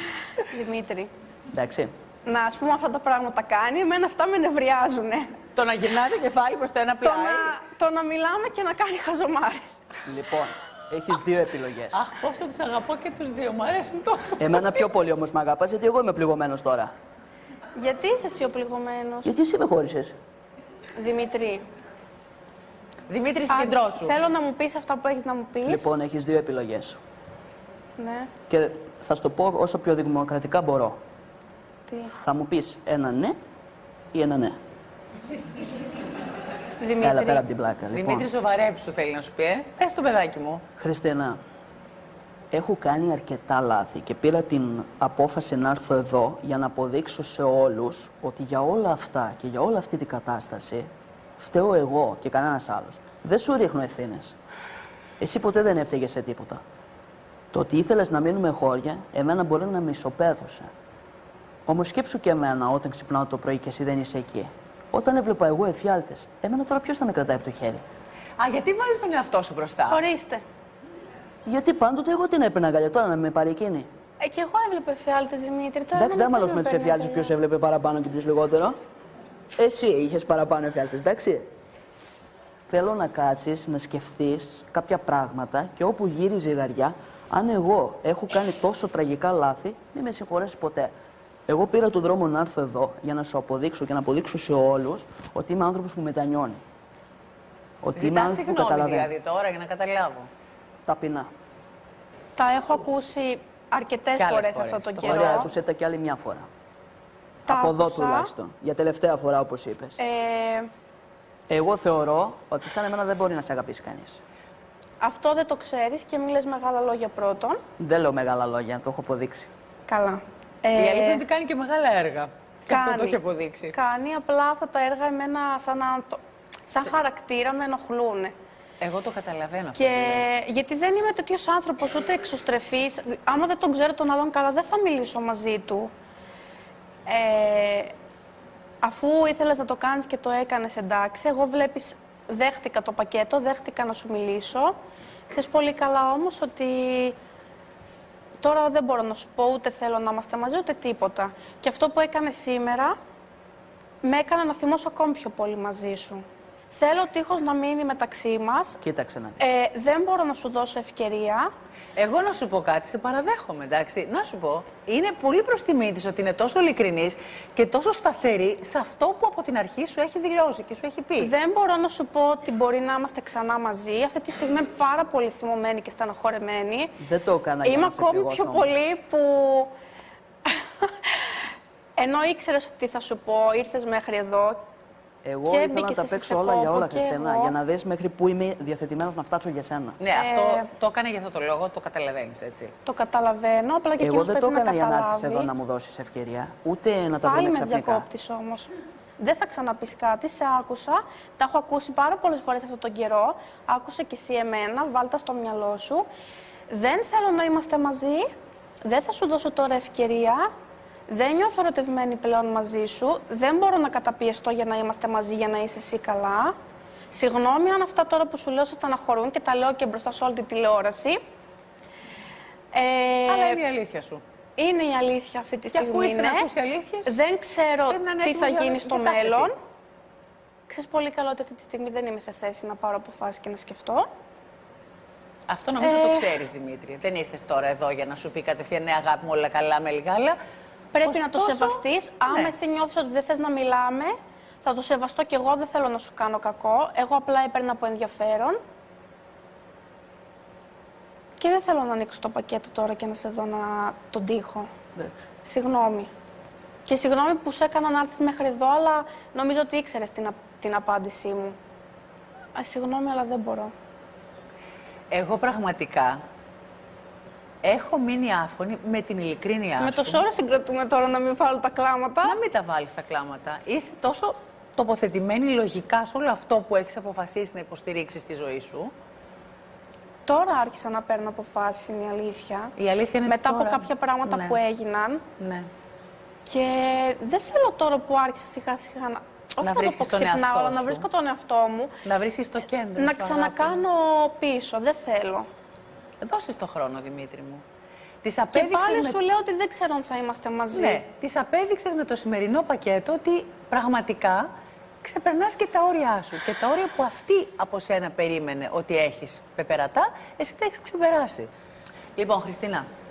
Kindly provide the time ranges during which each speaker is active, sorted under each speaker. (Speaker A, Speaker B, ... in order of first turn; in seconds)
Speaker A: 0.4-1.1, 2.2-5.3, 7.0-9.9, 17.8-19.3, 21.0-21.6, 23.5-25.9, 28.0-28.3, 36.8-37.4, 69.9-70.4, 74.2-77.3, 102.4-105.5, 107.5-108.3, 110.0-110.7, 115.0-117.6, 119.9-121.2, 122.7-123.2, 123.7-128.3, 129.8-135.9, 137.1-137.9, 138.8-144.8, 145.3-147.2, 148.4-153.0, 154.0-158.8, 159.4-161.5, 171.2-177.0, 177.6-179.7, 180.4-181.4, 182.0-184.6, 185.5-187.6, 190.1-190.7, 192.9-195.5, 197.2-206.1, 206.7-208.3, 208.8-210.5, 211.1-216.5, 217.1-221.2, 222.7-223.6, 224.6-226.5, 227.1-229.5, 230.7-234.1, 235.8-236.3, 240.9-248.6, 251.4-254.7, 255.4-256.1, 256.9-261.6, 262.6-263.7, 269.8-272.4, 280.2-282.7, 283.2-285.2, 286.4-291.9, 292.9-295.5, 298.5-301.0
Speaker B: 1.5-1.9, 10.1-12.1, 14.4-16.9, 19.2-20.1, 25.6-27.0, 28.5-31.0, 32.1-33.4, 34.1-34.5, 37.0-38.2, 40.8-41.4, 42.5-54.4, 55.2-56.6, 57.5-60.7, 61.6-67.8, 71.5-73.9, 75.9-78.8, 79.6-81.5, 82.7-90.9, 91.5-96.6, 97.8-99.1, 100.9-101.3, 105.0-106.5, 107.5-110.0, 111.5-114.2, 117.8-119.5, 158.8-159.4, 177.0-178.7, 185.2-190.0, 194.0-198.1
Speaker C: 5.5-7.6, 11.9-14.7, 23.1-24.1, 37.9-40.6, 68.4-70.0, 98.0-100.3, 104.2-105.5, 120.8-123.8, 128.8-130.3, 161.9-171.3, 190.0-192.7, 223.3-224.2, 225.7-227.2, 227.9-229.5, 235.5-240.4, 241.1-242.5, 265.1-266.2, 267.6-270.2, 272.2-278.9, 282.8-284.6, 285.4-285.7, 289.6-291.1, 292.0-293.8, 296.2-297.6, 298.2-299.2, 300.7-304.5, 305.0-311.5, 312.2-312.9